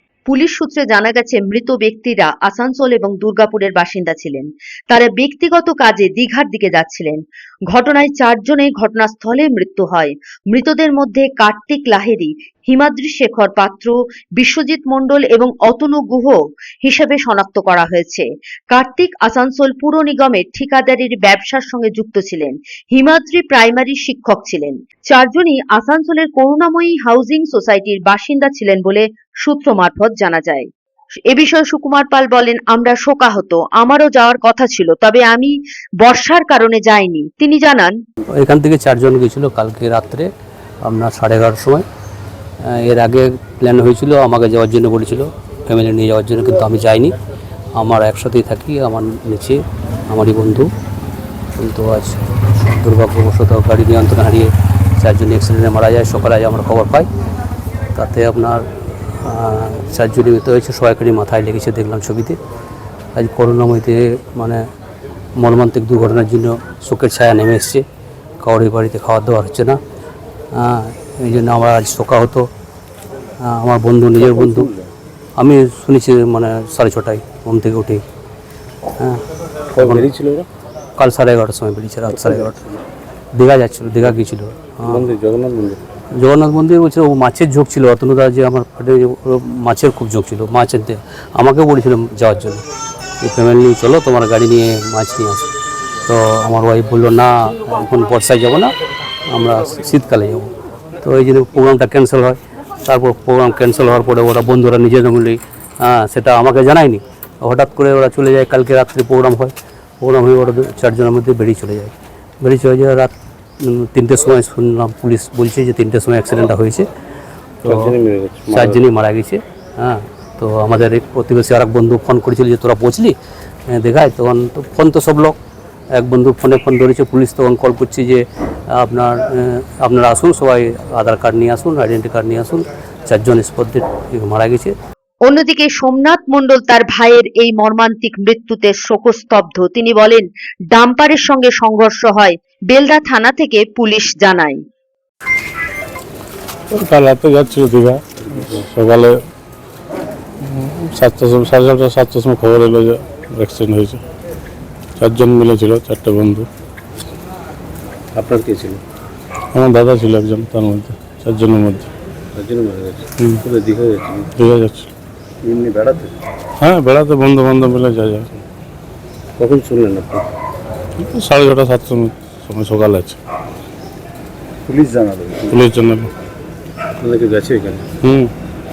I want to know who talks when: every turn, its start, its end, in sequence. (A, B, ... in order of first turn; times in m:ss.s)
0:00.3-0:30.7 A
0:31.3-0:38.0 A
0:38.4-0:40.3 B
0:40.8-0:41.8 B
0:42.7-0:47.1 B
0:47.8-0:50.7 B
0:51.6-0:57.1 B
0:58.0-0:58.6 B
0:59.2-1:02.4 B
1:03.2-1:04.6 B
1:05.4-1:07.8 B
1:08.4-1:09.8 B
1:10.6-1:12.5 B
1:13.4-1:14.7 B
1:14.2-1:14.9 C
1:15.4-1:18.0 B
1:19.8-1:20.5 C
1:19.8-1:20.1 B
1:21.0-1:22.6 B
1:22.1-1:22.7 C
1:23.4-1:25.0 B
1:24.8-1:25.8 C
1:26.2-1:32.6 B
1:33.2-1:35.5 B
1:36.1-1:38.7 B
1:39.3-1:40.5 B
1:41.0-1:56.9 B
1:57.6-1:58.8 C
1:58.5-2:03.2 B
2:03.7-2:05.4 B
2:06.0-2:08.2 B
2:08.8-2:14.7 B
2:15.2-2:24.6 A
2:26.7-2:29.2 D
2:28.2-2:28.7 C
2:30.4-2:34.0 D
2:35.0-2:36.5 D
2:38.2-2:38.8 C
2:39.5-2:41.9 D
2:42.4-2:44.3 C
2:44.4-2:44.9 D
2:45.4-2:46.1 C
2:46.6-2:48.3 D
2:49.4-2:50.3 C
2:51.0-2:53.2 D
2:54.7-2:55.5 C
2:55.5-2:56.1 D
2:57.0-2:57.8 C
2:58.0-2:58.3 D